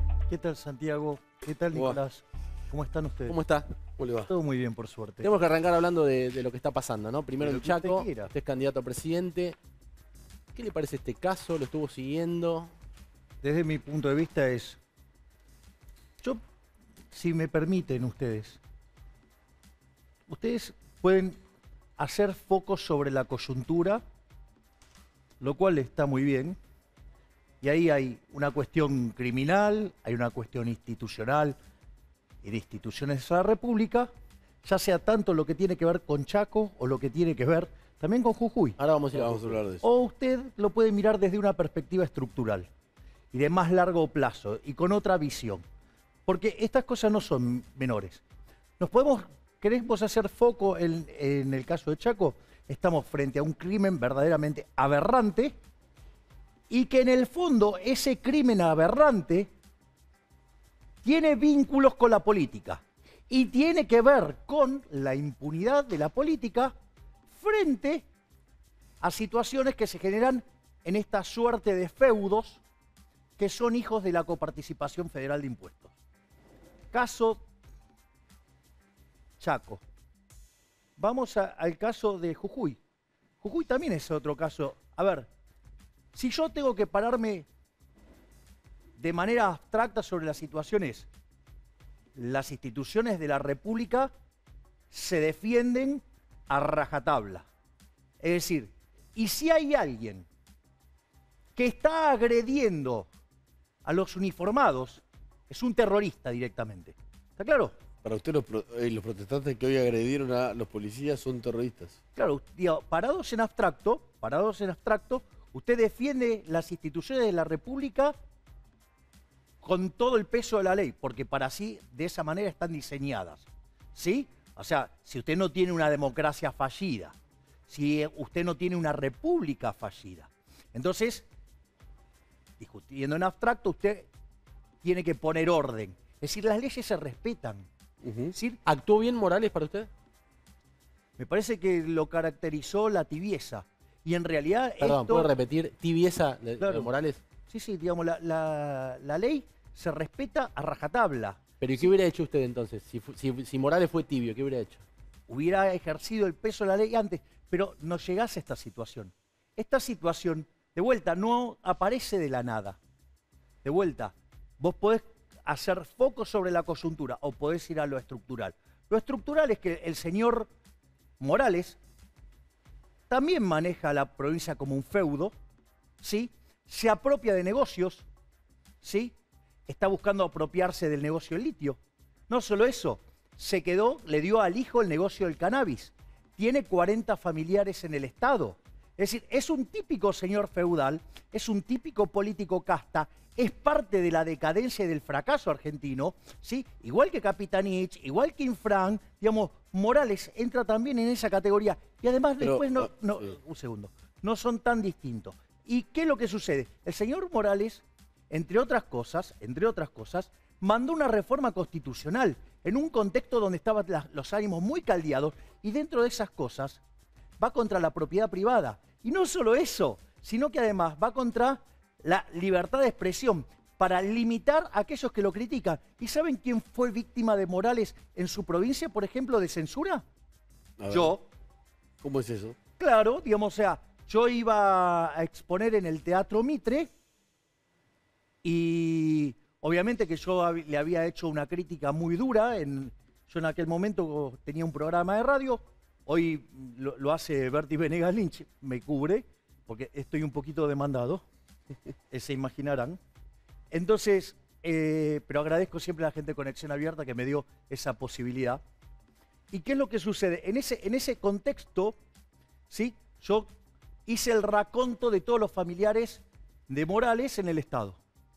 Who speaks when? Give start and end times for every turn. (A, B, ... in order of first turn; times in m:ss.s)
0:00.3-0:03.4 A
0:01.7-0:02.0 B
0:03.3-0:03.7 C
0:04.0-0:04.3 B
0:04.3-0:05.3 A
0:05.2-0:09.6 C
0:07.4-0:08.3 A
0:10.5-0:12.7 C
0:13.4-0:14.8 A
0:17.1-0:18.6 A
0:20.3-0:21.4 A
0:22.0-0:24.0 A
0:25.4-0:26.6 A
0:27.6-0:31.6 A
0:32.4-0:34.1 A
0:34.6-0:38.8 A
0:38.8-0:39.6 C
0:39.1-0:39.8 B
0:39.8-0:42.7 A
0:43.3-0:45.6 A
0:46.3-0:48.2 A
0:48.8-0:55.6 A
0:56.7-0:59.5 A
1:01.0-1:06.7 A
1:07.4-1:08.0 A
1:09.0-1:12.6 A
1:13.4-1:15.9 A
1:16.9-1:17.4 A
1:19.4-1:19.8 A
1:21.0-1:22.8 A
1:23.4-1:25.3 A
1:26.1-1:27.5 A
1:29.0-1:31.1 A
1:32.2-1:34.1 A
1:34.9-1:37.5 A
1:38.2-1:40.2 A
1:41.6-1:43.1 A
1:43.8-1:47.7 A
1:48.0-1:52.0 B
1:52.2-1:58.2 A
1:59.6-2:07.1 A
2:07.7-2:11.2 A
2:12.6-2:14.1 A
2:14.8-2:17.7 A
2:18.0-2:18.4 B
2:18.7-2:19.9 C
2:21.2-2:25.3 A
2:24.8-2:27.2 C
2:26.6-2:26.9 A
2:27.5-2:31.4 A
2:31.6-2:34.8 C
2:35.3-2:42.8 A
2:43.6-2:50.5 A
2:51.2-2:51.8 A
2:53.1-2:55.3 A
2:56.0-2:58.0 A
2:58.8-2:59.1 A
2:59.7-3:01.8 A
3:02.3-3:36.8 A
3:22.4-3:23.3 B
3:37.4-3:50.0 A
3:50.8-3:51.2 B
3:50.9-3:51.2 A
3:52.0-3:52.6 B
3:52.8-3:56.9 A
3:58.4-4:11.2 A
4:12.1-4:13.0 A
4:13.7-4:18.6 A
4:19.5-4:22.0 A
4:22.7-4:23.5 A
4:24.1-4:28.0 A